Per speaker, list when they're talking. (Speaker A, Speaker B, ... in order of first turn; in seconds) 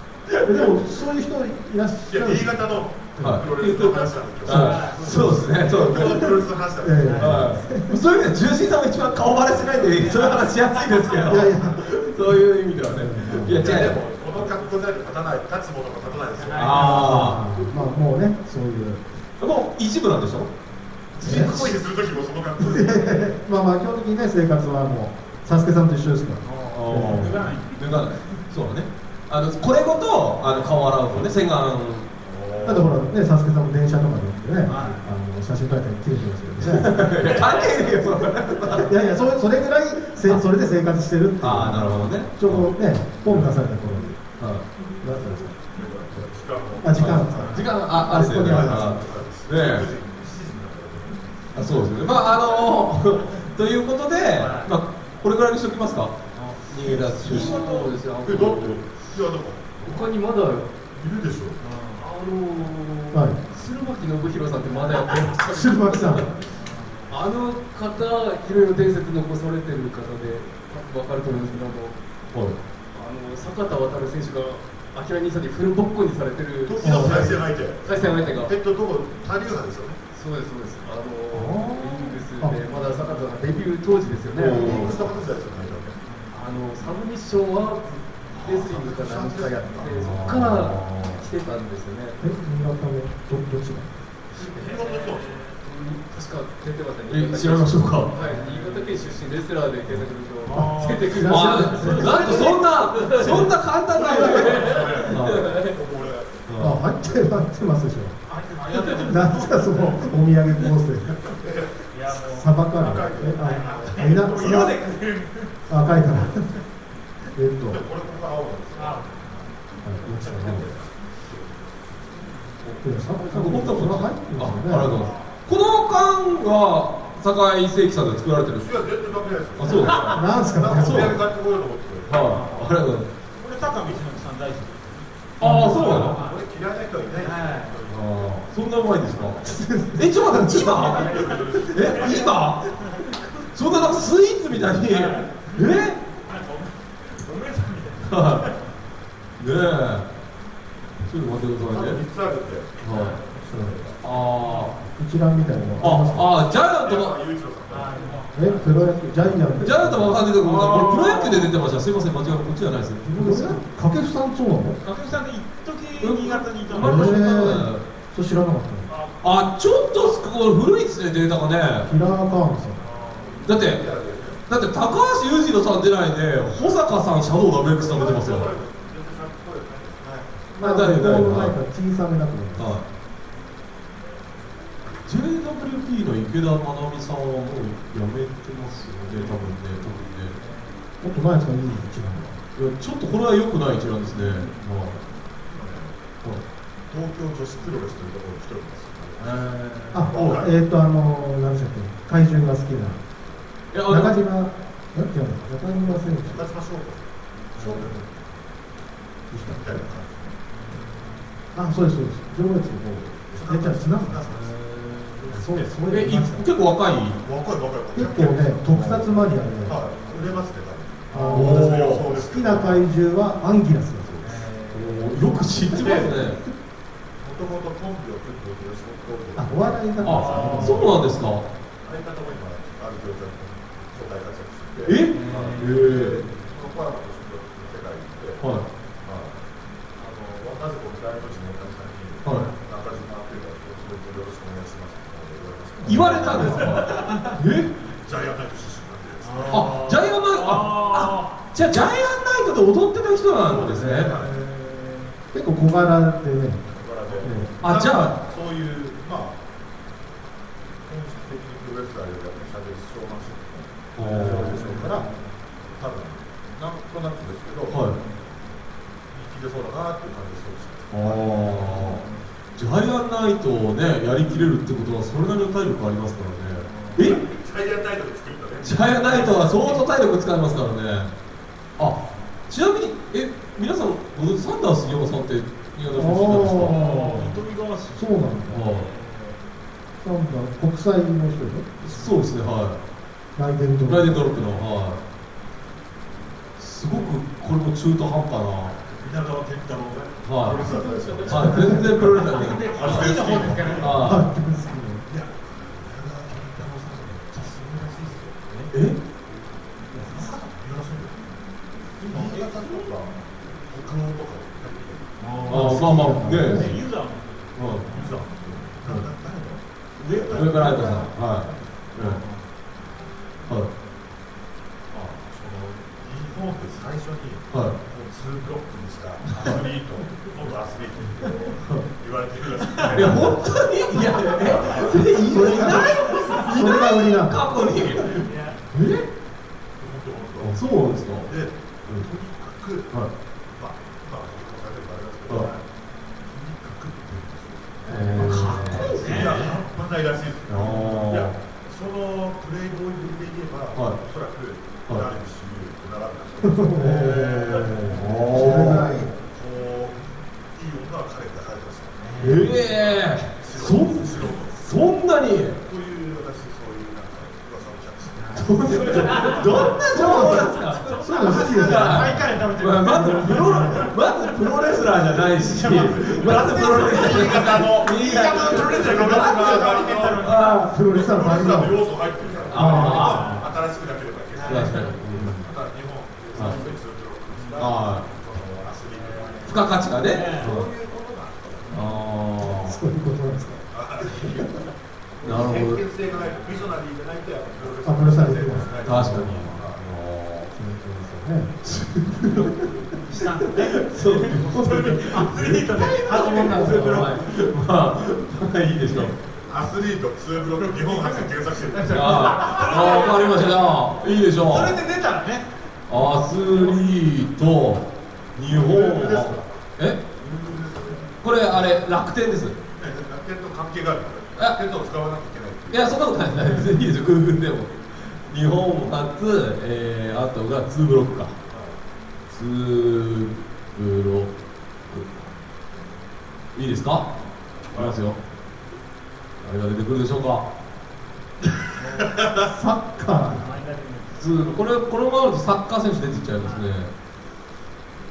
Speaker A: 0.3-0.8, 3.2-6.4, 7.2-14.0, 16.6-17.4, 19.4-20.5, 21.1-21.8, 26.7-32.1, 36.6-38.9, 41.4-43.5, 44.4-44.6, 47.0-49.9, 51.5-58.8, 64.8-65.4, 77.0-77.4, 78.0-78.2, 81.3-82.0, 84.3-85.0, 89.9-91.2, 97.1-98.1, 99.8-100.1, 101.3-105.6, 106.5-106.8, 122.6-128.7, 129.6-130.2, 130.7-131.2, 132.1-133.1, 135.4-136.2, 137.9-146.0, 148.0-148.5, 149.4-150.1, 151.0-152.0, 152.8-153.2, 154.0-154.7, 155.8-157.1, 159.6-163.6, 166.0-167.8, 169.2-171.9, 173.4-173.8, 174.5-178.5, 180.6-181.6, 182.6-182.8, 184.9-190.3, 192.6-195.0, 200.1-200.4, 203.7-204.2, 215.9-217.2, 221.2-222.1, 224.7-226.4, 230.0-231.4, 234.8-236.2, 238.4-238.6, 242.2-242.5, 245.8-247.7, 249.5-254.1, 257.6-258.2, 263.9-264.6, 267.7-267.9, 270.9-272.0, 272.6-277.2, 278.6-281.1, 281.8-286.8, 288.5-288.9, 291.8-292.8, 293.9-295.0, 296.6-298.7, 300.2-300.7, 301.3-304.3, 308.7-309.0, 315.5-316.7, 317.6-317.9, 320.3-322.2, 332.9-339.1, 340.4-341.3, 347.9-349.5, 350.5-351.3, 356.8-359.0, 362.2-365.6, 368.3-380.7, 382.5-383.4, 384.4-385.5, 386.3-386.7, 387.6-388.1, 389.4-390.7, 391.7-392.8, 395.2-395.8, 398.8-400.5, 401.6-402.6, 403.2-409.1, 411.9-414.8, 415.9-420.0, 421.2-422.6, 425.7-431.4, 432.3-434.3, 434.9-435.2, 436.5-437.1, 437.7-438.2, 439.4-440.4, 444.2-446.9
Speaker B: 0.4-2.7, 4.6-5.6, 6.8-8.0, 11.3-13.6, 16.7-19.0, 21.2-21.6, 22.6-27.5, 32.6-37.1, 38.7-44.2, 45.0-45.5, 46.8-49.0, 63.1-63.4, 65.5-66.3, 76.8-77.3, 92.2-93.9, 100.5-102.5, 106.6-108.2, 108.9-111.3, 112.3-114.8, 115.7-116.5, 117.3-117.8, 119.8-120.7, 122.8-125.0, 129.7-131.2, 135.4-136.1, 139.4-140.7, 153.5-153.8, 155.0-156.2, 158.3-160.2, 163.1-164.8, 166.8-168.9, 171.9-172.8, 180.6-182.7, 191.0-192.4, 199.9-203.0, 203.9-206.5, 209.3-209.8, 211.6-214.3, 215.3-216.5, 217.9-219.8, 221.1-224.5, 225.6-226.5, 229.3-230.9, 255.3-256.6, 257.2-257.6, 264.4-265.1, 285.9-287.4, 287.9-288.6, 290.0-291.8, 293.4-294.1, 301.2-302.1, 303.9-305.1, 309.9-310.3, 315.5-316.7, 335.1-337.5, 347.9-348.8, 356.4-359.1, 369.8-373.9, 375.6-376.0, 380.4-381.8, 382.5-383.4, 392.4-394.5, 397.8-399.3, 400.5-401.6, 405.7-407.1, 442.4-443.5
Speaker C: 2.1-7.5, 13.5-17.4, 21.2-23.3, 32.2-33.0, 45.6-51.4, 56.9-60.1, 60.9-61.6, 76.6-80.0, 84.4-86.0, 88.3-90.0, 94.4-95.4, 100.5-101.2, 103.4-106.5, 111.4-111.9, 112.7-114.8, 117.7-119.5, 120.1-122.5, 124.9-125.2, 128.6-132.7, 135.6-139.6, 140.3-142.5, 151.5-154.2, 155.9-158.2, 172.8-174.5, 177.7-180.4, 195.5-196.0, 196.9-200.6, 205.8-208.0, 209.5-210.4, 213.3-215.7, 217.1-222.9, 225.8-226.1, 227.2-231.2, 231.8-239.4, 239.9-247.3, 247.9-249.8, 253.4-254.4, 256.7-259.4, 260.8-265.1, 265.7-267.8, 269.1-271.5, 277.0-279.8, 298.6-304.2, 305.1-308.7, 309.9-311.2, 312.0-315.1, 317.9-321.1, 324.9-333.6, 334.1-336.7, 339.8-340.6, 341.2-342.9, 343.5-345.6, 346.2-364.7, 365.6-371.8, 375.6-380.3, 380.9-391.9, 393.7-394.6, 395.2-399.8, 404.2-405.9, 408.9-413.2, 418.4-419.6, 420.1-421.8, 422.8-425.9, 431.5-431.8, 437.6-438.1
Speaker D: 4.5-5.1, 7.0-7.4, 9.4-11.4, 16.4-17.1, 26.4-28.4, 34.7-35.1, 37.2-37.7, 41.6-42.0, 47.3-47.7, 54.4-54.7, 56.3-56.6, 61.6-62.0, 66.5-67.2, 86.0-86.3, 94.6-95.5, 98.1-99.3, 100.6-101.0, 101.9-102.6, 104.1-105.1, 108.3-110.0, 111.9-112.6, 113.4-115.5, 118.7-119.4, 124.9-125.2, 129.7-130.2, 132.1-132.7, 133.4-136.4, 137.2-137.8, 140.6-143.0, 144.9-148.7, 152.9-153.2, 154.4-154.8, 157.7-159.0, 160.4-161.6, 164.8-167.2, 190.3-190.8, 194.1-194.7, 199.2-200.1, 207.6-208.0, 210.5-211.3, 224.2-225.4, 230.0-230.9, 235.1-235.8, 242.3-242.6, 246.3-247.4, 249.2-251.3, 253.6-255.1, 267.9-268.3, 271.2-272.3, 276.6-277.1, 286.6-289.4, 300.5-301.5, 302.0-304.0, 312.0-312.9, 315.2-318.3, 320.0-321.1, 321.9-322.4, 332.7-333.1, 338.0-338.6, 348.3-349.6, 357.1-358.0, 362.0-362.6, 368.1-374.8, 375.5-380.7, 382.2-383.4, 384.3-384.9, 386.4-386.8, 387.3-387.6, 388.9-390.5, 391.6-391.9, 396.1-396.8, 403.1-407.0, 410.6-413.7, 414.3-415.5, 441.8-442.2, 443.1-444.5, 446.4-446.6
Speaker E: 57.0-58.8, 59.8-60.7, 62.0-66.5, 67.1-72.0, 72.9-78.5, 80.1-85.1, 86.3-92.2, 94.5-94.8, 95.4-105.7, 214.7-215.0, 348.6-348.9